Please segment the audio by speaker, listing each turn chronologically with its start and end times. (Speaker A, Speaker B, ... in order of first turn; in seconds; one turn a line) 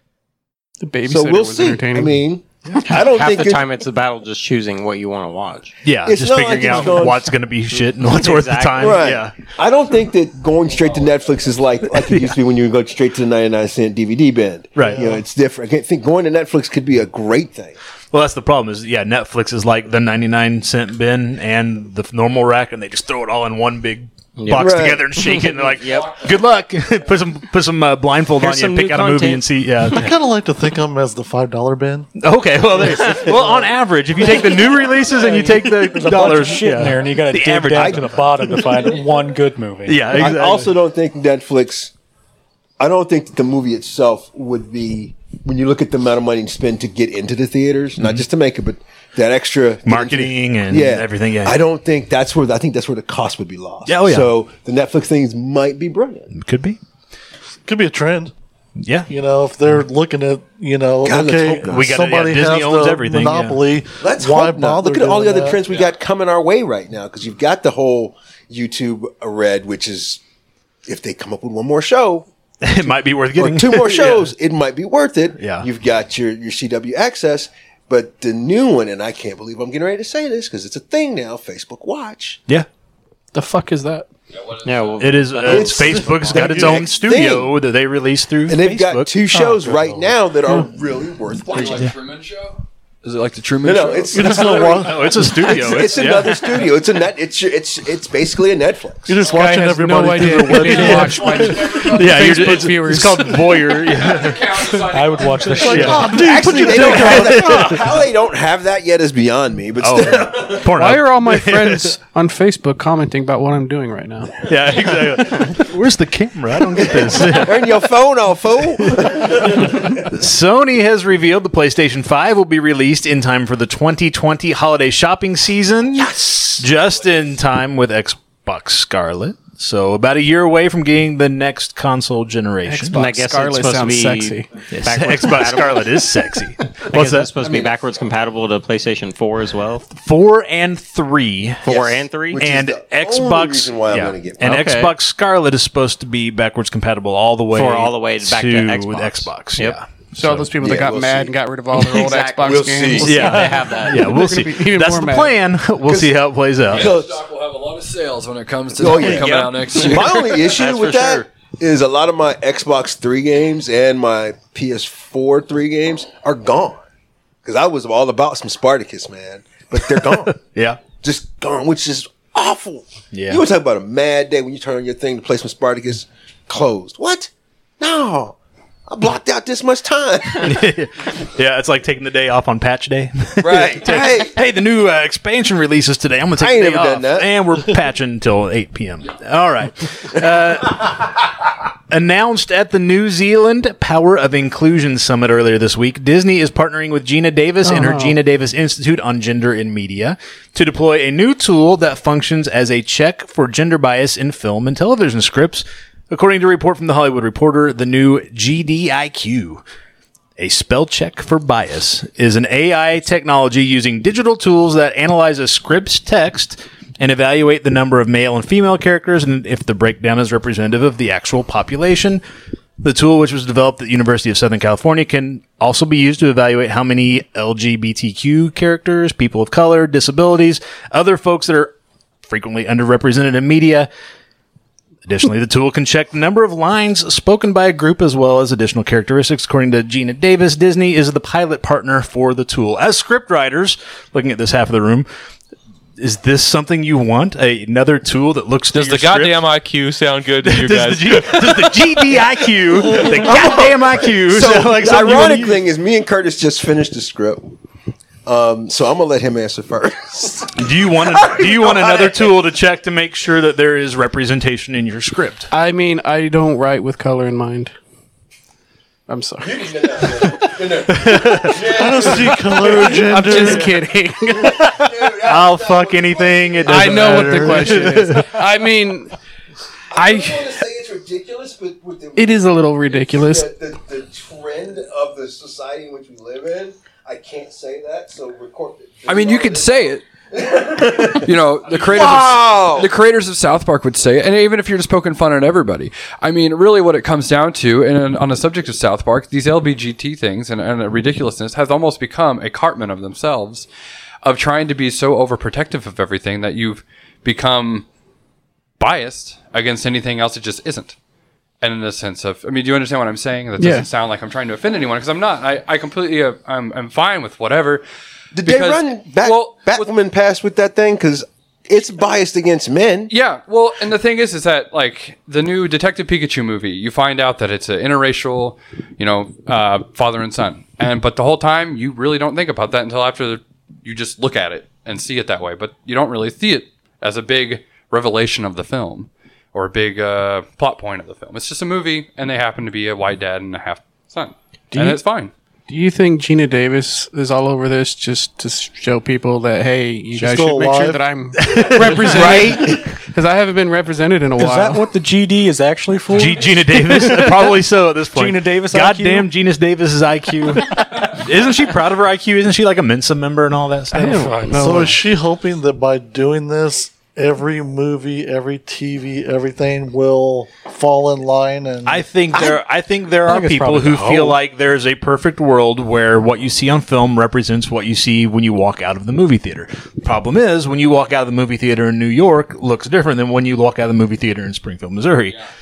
Speaker A: 0.8-2.2
Speaker B: 1.1-3.6
Speaker C: 2.8-5.7
Speaker D: 5.8-9.3
Speaker B: 6.0-7.3
Speaker C: 7.7-9.1
Speaker B: 8.8-17.8
Speaker E: 10.8-11.1
Speaker D: 11.9-12.3
Speaker D: 14.8-15.0
Speaker F: 14.8-15.2
Speaker D: 18.1-30.1
Speaker C: 24.4-26.1
Speaker B: 24.5-25.1
Speaker E: 25.8-26.3
Speaker C: 28.4-29.4
Speaker F: 29.9-32.1
Speaker D: 32.2-38.6
Speaker F: 32.8-33.7
Speaker G: 35.1-40.1
Speaker B: 37.7-38.1
Speaker D: 39.9-40.7
Speaker B: 40.1-41.9
Speaker B: 42.8-56.3
Speaker D: 49.8-51.6
Speaker D: 53.9-54.3
Speaker D: 56.3-56.8
Speaker F: 57.6-58.3
Speaker D: 58.8-59.1
Speaker F: 59.1-65.6
Speaker B: 61.0-62.0
Speaker D: 61.6-63.6
Speaker B: 64.0-70.2
Speaker B: 70.8-72.3
Speaker D: 72.6-74.3
Speaker B: 73.3-82.4
Speaker D: 75.4-75.7
Speaker A: 83.3-84.1
Speaker E: 84.3-85.2
Speaker C: 84.6-85.7
Speaker D: 85.0-89.2
Speaker B: 85.4-87.5
Speaker F: 85.8-86.7
Speaker B: 88.5-91.9
Speaker F: 89.4-90.0
Speaker E: 91.5-94.8
Speaker B: 93.6-99.2
Speaker F: 94.1-95.3
Speaker D: 94.8-96.4
Speaker F: 99.0-101.6
Speaker A: 99.3-103.6
Speaker D: 100.6-104.8
Speaker E: 100.8-102.6
Speaker E: 103.8-106.4
Speaker G: 104.8-106.2
Speaker F: 105.5-107.7
Speaker D: 105.6-107.8
Speaker B: 105.8-110.7
Speaker D: 109.8-111.9
Speaker A: 110.7-114.4
Speaker D: 114.4-117.6
Speaker B: 116.9-119.9
Speaker D: 118.8-133.1
Speaker B: 126.0-126.7
Speaker A: 132.6-134.5
Speaker C: 132.9-136.1
Speaker D: 134.7-137.3
Speaker C: 136.8-139.8
Speaker D: 139.9-141.7
Speaker C: 141.6-142.4
Speaker B: 141.7-144.6
Speaker D: 142.4-150.5
Speaker C: 144.4-144.9
Speaker C: 147.5-149.8
Speaker A: 150.1-155.4
Speaker B: 150.6-151.3
Speaker C: 151.8-154.1
Speaker B: 152.1-153.3
Speaker D: 153.0-156.9
Speaker B: 155.8-157.2
Speaker E: 156.7-160.5
Speaker B: 158.8-166.8
Speaker D: 159.0-159.5
Speaker C: 160.6-161.2
Speaker B: 167.4-170.4
Speaker D: 170.4-170.8
Speaker B: 171.0-180.7
Speaker D: 173.1-173.4
Speaker D: 180.4-191.1
Speaker B: 183.4-184.3
Speaker B: 186.4-187.3
Speaker D: 191.9-209.6
Speaker A: 197.6-198.2
Speaker D: 210.4-222.2
Speaker D: 222.8-231.7
Speaker D: 232.2-233.9
Speaker D: 235.1-245.1
Speaker D: 246.0-249.5
Speaker H: 248.7-251.7
Speaker D: 250.4-255.6
Speaker B: 252.9-257.5
Speaker B: 258.2-262.3
Speaker D: 260.6-265.5
Speaker A: 265.5-267.7
Speaker A: 269.1-270.3
Speaker B: 269.4-273.6
Speaker D: 270.9-271.6
Speaker F: 271.6-273.8
Speaker A: 272.8-274.6
Speaker B: 274.4-277.1
Speaker D: 274.4-278.4
Speaker A: 276.6-279.1
Speaker F: 276.8-278.0
Speaker B: 279.9-292.9
Speaker A: 279.9-280.4
Speaker A: 282.1-283.5
Speaker E: 289.1-290.0
Speaker E: 291.0-303.7
Speaker E: 304.2-307.9
Speaker E: 308.8-310.9
Speaker E: 311.6-317.8
Speaker A: 313.6-313.9
Speaker B: 318.3-323.1
Speaker E: 318.4-319.9
Speaker E: 323.1-345.3
Speaker A: 344.7-345.0
Speaker A: 345.7-354.9
Speaker F: 350.1-351.0
Speaker D: 351.4-352.6
Speaker B: 352.1-352.8
Speaker G: 354.4-357.6
Speaker D: 356.1-364.4
Speaker G: 358.1-359.3
Speaker A: 363.9-365.0
Speaker F: 363.9-372.0
Speaker G: 364.0-364.9
Speaker D: 371.9-385.4
Speaker G: 373.2-374.4